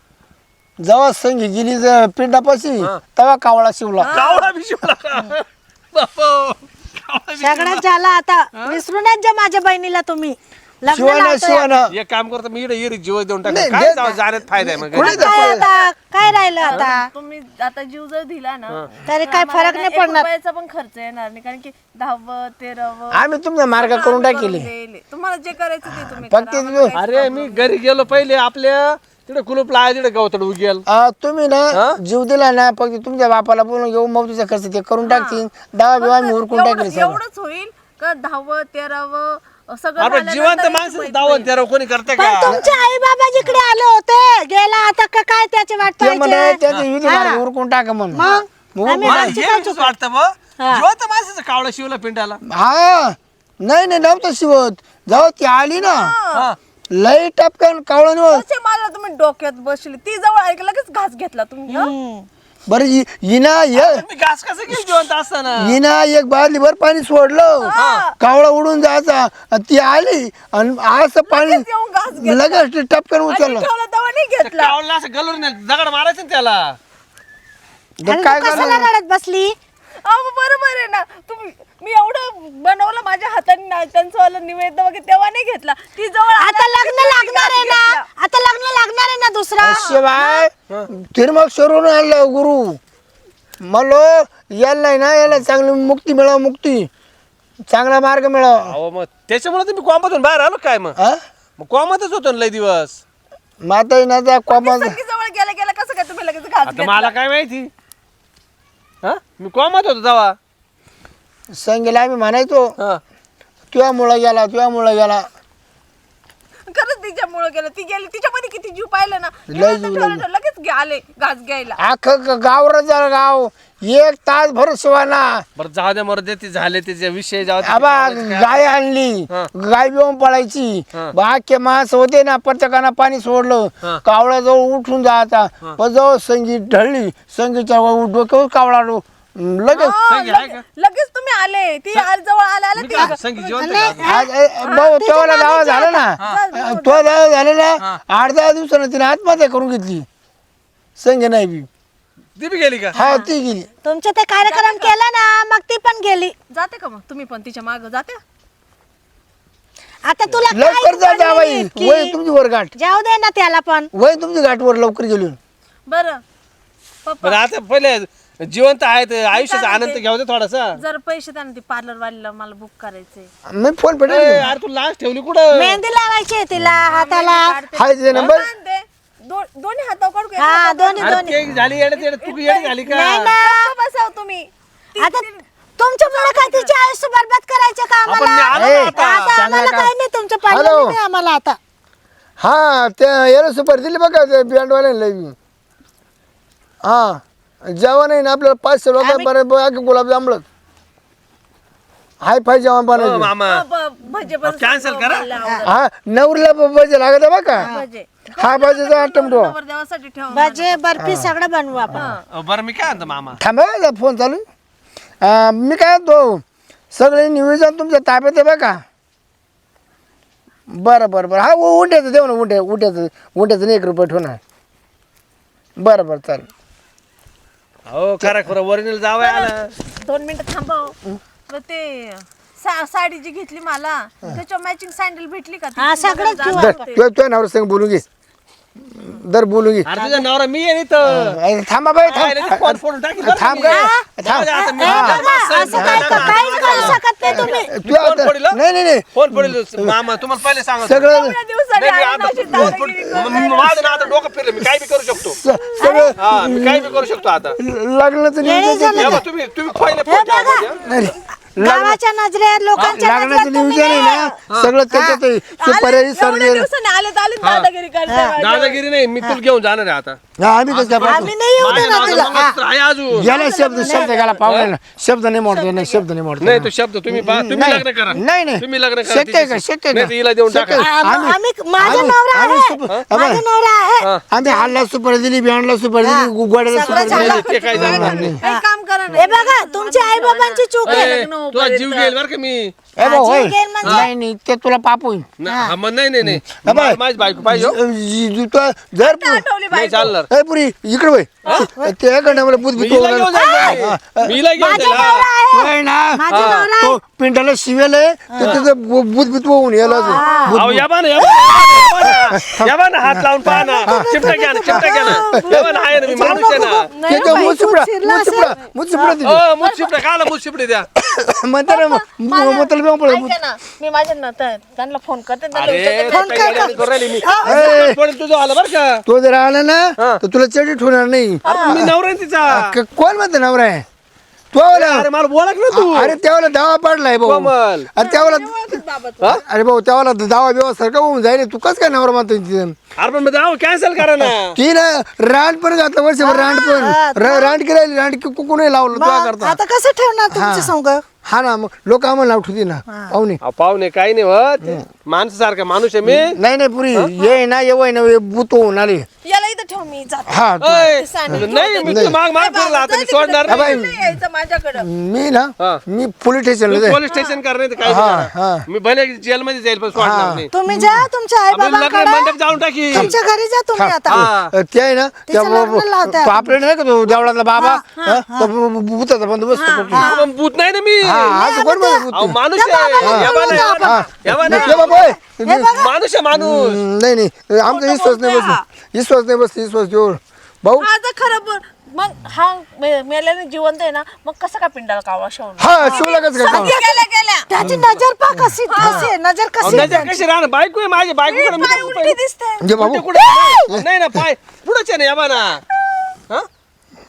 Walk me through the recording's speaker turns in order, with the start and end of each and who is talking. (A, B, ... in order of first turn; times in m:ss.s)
0:00.8-0:04.1 A
0:04.0-0:04.5 B
0:04.1-0:07.8 C
0:07.4-0:11.8 D
0:10.9-0:11.9 A
0:11.9-0:15.2 C
0:13.4-0:15.6 A
0:15.0-0:17.1 D
0:15.0-0:15.9 B
0:16.6-0:23.2 B
0:19.1-0:20.3 D
0:23.1-0:24.7 A
0:23.7-0:27.8 B
0:25.9-0:27.0 A
0:26.9-0:30.8 C
0:30.9-0:37.2 A
0:35.0-0:35.4 B
0:36.0-0:41.5 B
0:40.0-0:42.5 C
0:42.2-0:47.4 D
0:42.5-0:42.7 A
0:46.0-0:49.3 A
0:48.1-0:49.9 D
0:49.0-0:52.4 C
0:50.6-0:50.8 D
0:52.4-0:56.1 A
0:55.8-0:56.4 B
0:56.9-0:58.4 A
0:58.3-1:01.9 B
1:01.7-1:02.3 D
1:02.7-1:04.0 A
1:03.7-1:05.6 C
1:04.7-1:05.0 A
1:05.6-1:13.7 A
1:07.6-1:08.1 B
1:07.8-1:08.0 C
1:11.3-1:12.6 B
1:13.3-1:14.8 B
1:14.4-1:16.8 C
1:18.0-1:18.9 A
1:18.0-1:19.5 D
1:18.5-1:18.7 B
1:20.0-1:28.0 B
1:26.4-1:29.9 D
1:29.6-1:32.8 A
1:29.7-1:30.5 B
1:33.6-1:36.9 A
1:37.7-1:38.8 A
1:38.7-1:41.0 C
1:41.6-1:43.0 C
1:43.6-1:45.0 A
1:44.5-1:47.2 B
1:46.6-1:47.7 C
1:49.0-1:50.4 C
1:51.5-1:52.8 A
1:53.7-1:55.3 A
1:56.7-2:01.8 B
1:59.5-2:00.2 A
2:01.8-2:05.4 A
2:05.6-2:08.6 C
2:07.6-2:19.9 A
2:19.7-2:24.0 B
2:20.0-2:20.6 C
2:22.7-2:24.0 C
2:23.0-2:24.3 D
2:24.0-2:30.0 A
2:24.6-2:27.2 B
2:24.9-2:25.4 D
2:31.0-2:31.7 A
2:32.4-2:33.0 C
2:32.9-2:33.2 B
2:32.9-2:33.7 A
2:33.8-2:36.3 D
2:34.4-2:35.0 B
2:36.5-2:38.2 B
2:40.0-2:42.2 D
2:40.5-2:42.7 A
2:42.8-2:43.9 D
2:43.9-2:45.4 A
2:45.9-2:46.2 B
2:47.0-2:47.4 B
2:47.2-2:50.8 C
2:49.3-2:50.0 B
2:50.8-2:53.3 B
2:53.5-2:54.4 A
2:54.1-2:55.8 C
2:55.5-2:57.6 D
2:56.8-3:01.3 B
2:57.7-2:58.5 A
2:58.1-2:58.4 C
3:00.4-3:01.4 D
3:01.0-3:03.3 C
3:01.9-3:05.4 B
3:02.8-3:03.7 D
3:05.0-3:05.2 D
3:05.8-3:11.6 D
3:06.1-3:06.7 B
3:08.1-3:09.4 C
3:08.5-3:09.9 A
3:10.4-3:11.0 A
3:12.4-3:15.4 A
3:16.8-3:20.4 A
3:19.0-3:19.3 D
3:22.2-3:23.3 A
3:22.9-3:23.6 C
3:23.4-3:25.8 B
3:24.4-3:25.3 C
3:25.6-3:27.7 A
3:27.6-3:30.8 B
3:27.6-3:27.8 D
3:28.4-3:29.5 A
3:30.3-3:32.1 D
3:31.0-3:31.3 A
3:31.9-3:32.2 B
3:32.3-3:33.4 C
3:33.4-3:34.4 A
3:35.2-3:38.8 A
3:40.7-3:44.4 A
3:45.8-3:46.5 A
3:47.9-3:49.7 C
3:49.2-3:51.0 B
3:51.5-3:57.0 B
3:55.8-3:56.9 D
3:56.5-3:58.0 A
3:58.8-3:59.9 A
3:59.8-4:01.4 C
4:01.1-4:09.9 A
4:02.1-4:08.6 C
4:03.6-4:07.7 D
4:09.1-4:11.1 C
4:10.8-4:11.4 A
4:11.1-4:14.2 B
4:11.8-4:15.4 C
4:15.3-4:17.0 A
4:15.8-4:16.2 D
4:16.2-4:17.6 C
4:17.6-4:19.2 A
4:18.4-4:19.2 D
4:19.0-4:20.8 C
4:20.0-4:20.6 D
4:20.8-4:22.0 A
4:21.6-4:23.4 D
4:22.8-4:26.7 A
4:23.4-4:24.4 B
4:24.9-4:25.2 D
4:25.5-4:28.8 B
4:27.4-4:27.7 C
4:28.1-4:28.4 D
4:28.4-4:30.2 C
4:30.4-4:31.3 A
4:30.7-4:33.2 C
4:31.0-4:32.6 D
4:31.7-4:32.2 B
4:33.1-4:43.4 A
4:33.2-4:34.4 B
4:33.8-4:34.1 D
4:34.4-4:34.7 C
4:35.4-4:36.0 B
4:36.4-4:40.9 C
4:40.8-4:44.6 D
4:41.8-4:42.1 C
4:44.3-4:48.4 A
4:46.0-4:47.5 D
4:46.8-4:52.2 B
4:47.0-4:48.4 C
4:48.4-4:51.1 D
4:50.8-4:52.7 C
4:53.0-4:55.3 A
4:53.0-4:54.1 D
4:55.4-4:57.8 C
4:55.5-4:55.7 D
4:56.2-4:59.4 A
4:59.0-5:00.1 B
4:59.7-5:00.3 C
5:00.0-5:10.8 A
5:01.7-5:02.4 D
5:02.8-5:05.2 C
5:03.4-5:03.8 D
5:04.6-5:07.0 D
5:06.3-5:06.6 C
5:08.3-5:08.6 D
5:09.8-5:10.5 B
5:10.0-5:10.6 D
5:10.5-5:16.8 C
5:12.3-5:19.4 A
5:13.5-5:19.2 D
5:16.9-5:17.5 B
5:19.2-5:20.9 C
5:19.6-5:19.9 B
5:21.0-5:23.4 A
5:21.7-5:27.3 B
5:25.5-5:29.0 C
5:26.1-5:27.8 D
5:27.4-5:28.0 A
5:29.0-5:31.9 A
5:31.4-5:31.8 B
5:31.4-5:32.6 C
5:32.5-5:33.8 A
5:34.5-5:35.1 A
5:34.7-5:36.2 C
5:35.7-5:42.8 A
5:37.2-5:37.9 C
5:38.0-5:39.3 B
5:43.0-5:44.6 C
5:44.2-5:49.6 A
5:46.2-5:47.6 D
5:48.9-5:51.0 D
5:50.3-5:53.4 A
5:53.4-5:56.3 C
5:56.0-5:59.1 A
5:59.2-6:04.9 B
6:00.3-6:02.2 A
6:00.6-6:03.8 C
6:03.5-6:04.1 A
6:04.8-6:07.0 A
6:06.7-6:10.5 C
6:07.8-6:08.6 A
6:09.9-6:11.1 A
6:10.5-6:12.4 D
6:11.5-6:13.1 C
6:12.9-6:14.2 D
6:13.8-6:20.1 A
6:14.1-6:14.5 C
6:15.3-6:16.5 D
6:17.1-6:18.5 D
6:19.5-6:20.3 B
6:19.9-6:20.2 D
6:20.0-6:21.4 C
6:21.0-6:22.4 A
6:21.3-6:22.0 D
6:22.1-6:24.9 C
6:22.5-6:25.9 D
6:23.0-6:25.7 A
6:24.5-6:25.0 B
6:25.7-6:26.8 C
6:26.3-6:30.9 A
6:27.6-6:28.6 B
6:30.8-6:37.5 B
6:35.6-6:36.8 A
6:35.8-6:40.1 D
6:37.6-6:39.1 A
6:38.7-6:39.1 B
6:39.6-6:42.2 C
6:39.6-6:40.1 A
6:41.2-6:42.7 B
6:42.6-6:43.1 A
6:42.7-6:45.6 C
6:43.2-6:43.6 D